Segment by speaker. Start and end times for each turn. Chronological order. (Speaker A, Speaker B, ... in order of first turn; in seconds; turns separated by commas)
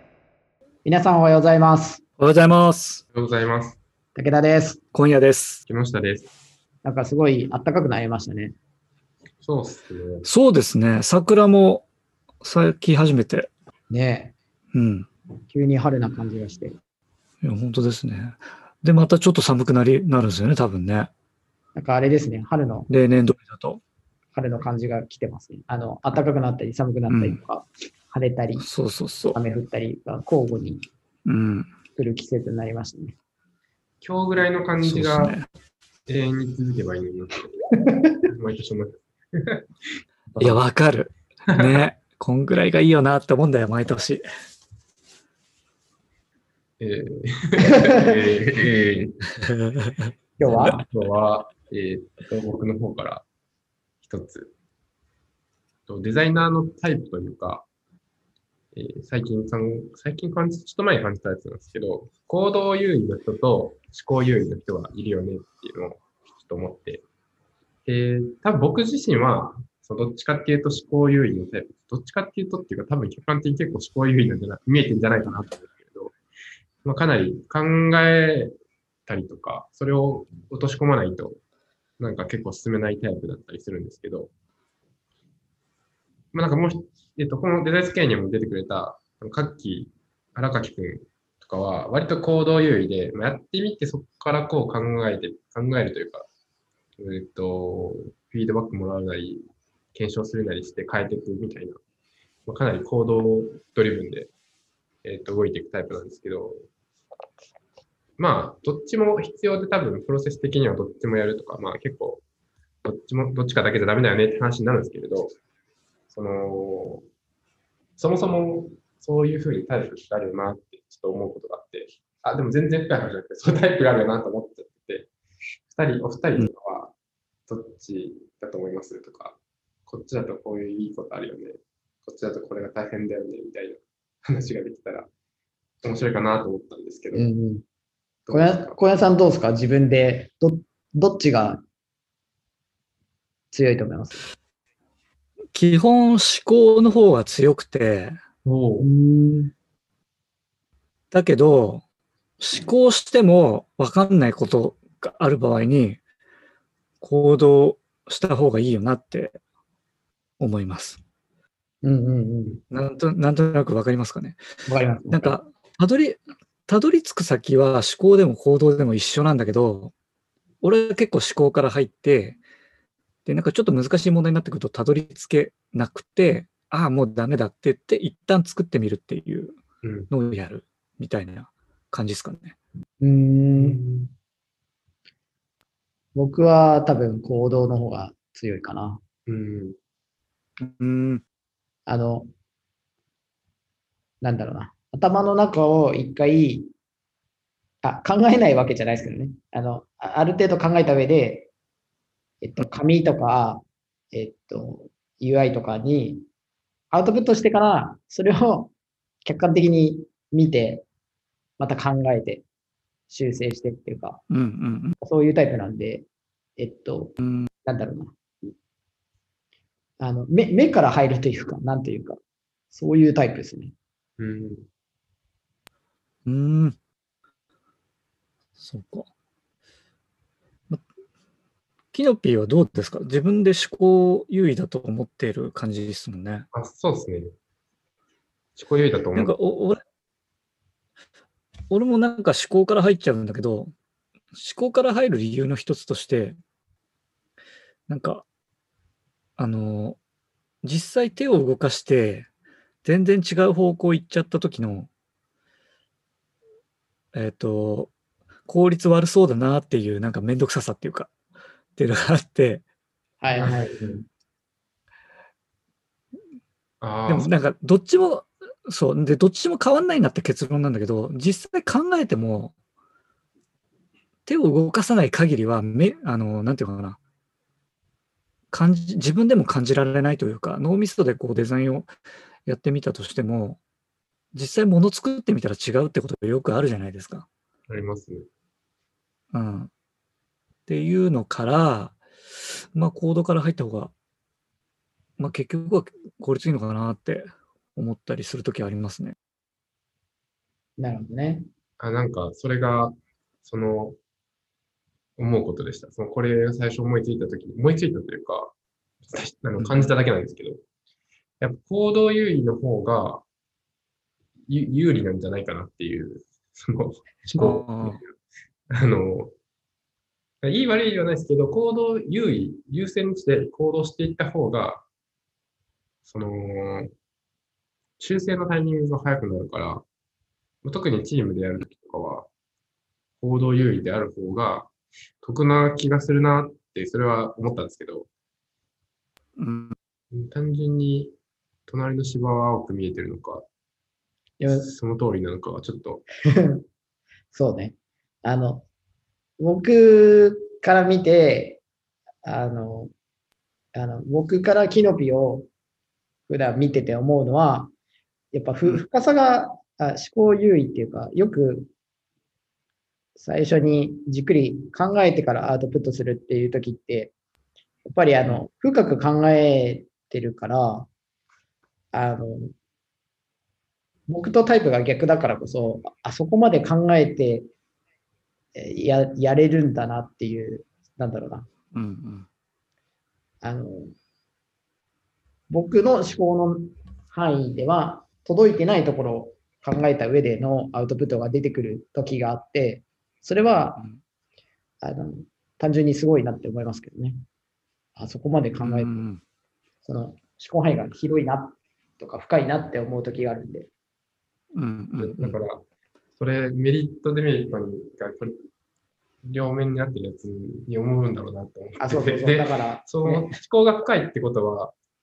Speaker A: 0.8-2.0, Speaker B: 2.2-3.0, Speaker C: 3.1-3.8, Speaker A: 4.1-4.8, Speaker B: 4.9-5.6, Speaker C: 5.7-6.3, Speaker A: 6.8-8.5, Speaker C: 9.4-10.3, Speaker B: 10.2-11.8, Speaker B: 12.4-13.5, Speaker A: 13.9-14.3, Speaker B: 14.7-15.1, Speaker A: 15.5-16.8, Speaker B: 17.4-21.1, Speaker A: 21.7-22.9, Speaker B: 22.9-23.8, Speaker A: 24.3-28.7, Speaker B: 27.1-27.4, Speaker B: 28.6-29.4, Speaker A: 29.3-30.8, Speaker B: 31.2-31.7, Speaker A: 31.9-33.1, Speaker C: 34.0-35.4, Speaker B: 34.8-35.5, Speaker C: 36.1-37.6, Speaker A: 37.8-38.0, Speaker C: 38.2-40.6, Speaker B: 40.4-44.2, Speaker C: 46.8-49.4, Speaker B: 49.6-50.1, Speaker A: 50.4-50.8, Speaker C: 50.5-53.2, Speaker C: 54.0-54.5, Speaker C: 55.9-57.6, Speaker C: 58.7-67.0, Speaker C: 67.9-76.1, Speaker C: 76.8-78.5, Speaker C: 79.1-81.4, Speaker C: 82.0-84.3, Speaker C: 86.3-96.3, Speaker C: 97.0-99.4, Speaker C: 99.9-101.8, Speaker C: 102.5-104.3, Speaker C: 105.0-106.6, Speaker C: 108.2-112.2, Speaker C: 112.8-115.3, Speaker C: 116.1-117.0, Speaker C: 118.0-125.1, Speaker C: 125.7-126.9, Speaker C: 127.5-135.1, Speaker C: 135.8-137.3, Speaker A: 137.1-137.6, Speaker C: 138.2-138.8, Speaker A: 138.3-141.6, Speaker A: 143.5-144.3, Speaker B: 145.5-148.2, Speaker C: 148.4-148.9, Speaker A: 148.8-149.5, Speaker B: 151.1-151.8, Speaker B: 152.4-156.0, Speaker B: 157.0-159.4, Speaker B: 160.4-161.0, Speaker A: 161.8-162.6, Speaker B: 162.7-164.4, Speaker A: 164.7-165.3, Speaker B: 165.1-169.9, Speaker B: 170.6-172.4, Speaker B: 173.2-179.6, Speaker C: 179.8-180.1, Speaker B: 180.1-182.6, Speaker A: 183.0-183.8, Speaker C: 183.5-184.1, Speaker A: 186.1-189.0, Speaker C: 189.3-189.8, Speaker B: 190.6-191.2, Speaker A: 191.9-192.3, Speaker A: 194.2-196.7, Speaker A: 197.8-201.5, Speaker A: 202.4-206.2, Speaker A: 206.9-208.7, Speaker A: 209.2-210.8, Speaker A: 211.6-212.4, Speaker A: 213.1-214.2, Speaker B: 214.3-214.9, Speaker A: 215.0-218.5, Speaker B: 217.2-217.5, Speaker A: 220.0-222.2, Speaker A: 222.7-223.7, Speaker C: 224.2-224.7, Speaker B: 226.2-226.7, Speaker B: 228.6-229.1, Speaker B: 231.9-236.5, Speaker C: 236.5-237.3, Speaker C: 238.6-239.4, Speaker B: 239.1-239.8, Speaker B: 241.7-243.7, Speaker B: 244.3-246.4, Speaker B: 247.9-248.2, Speaker B: 249.4-250.0, Speaker B: 250.6-252.3, Speaker B: 252.8-254.9, Speaker B: 257.1-257.9, Speaker B: 258.5-261.1, Speaker B: 261.8-262.6, Speaker A: 263.2-263.9, Speaker C: 263.4-264.0, Speaker C: 266.8-267.3, Speaker B: 267.1-272.5, Speaker B: 274.2-277.0, Speaker B: 278.5-281.9, Speaker B: 282.4-283.6, Speaker B: 284.3-287.3, Speaker C: 287.7-288.3, Speaker B: 289.3-289.7, Speaker B: 290.6-293.9, Speaker B: 295.2-299.1, Speaker A: 300.8-301.5, Speaker C: 301.8-304.0, Speaker C: 305.2-308.5, Speaker C: 309.0-310.6, Speaker C: 311.4-313.2, Speaker C: 314.5-318.2, Speaker B: 317.3-318.0, Speaker C: 318.7-319.3, Speaker C: 320.4-324.8, Speaker C: 326.0-326.9, Speaker C: 328.0-329.8, Speaker C: 330.6-332.3, Speaker C: 333.2-334.7, Speaker C: 335.2-338.1, Speaker B: 339.4-339.8, Speaker C: 340.1-341.1, Speaker C: 341.7-343.4, Speaker A: 344.4-344.7, Speaker C: 344.4-346.0, Speaker A: 346.3-346.6, Speaker A: 347.3-348.6, Speaker A: 349.4-351.6, Speaker A: 352.2-352.9, Speaker A: 353.7-355.5, Speaker A: 356.3-357.7, Speaker A: 358.3-361.7, Speaker A: 363.1-367.1, Speaker A: 367.8-370.9, Speaker A: 371.9-372.5, Speaker A: 374.1-377.5, Speaker A: 378.5-381.5, Speaker B: 381.7-382.3, Speaker A: 383.4-383.9, Speaker A: 385.5-393.8, Speaker A: 394.8-397.2, Speaker A: 397.9-398.9, Speaker B: 398.6-399.2, Speaker A: 399.8-403.7, Speaker B: 404.5-405.4, Speaker C: 405.0-405.6, Speaker C: 406.2-408.4, Speaker C: 409.2-414.7, Speaker A: 411.8-413.3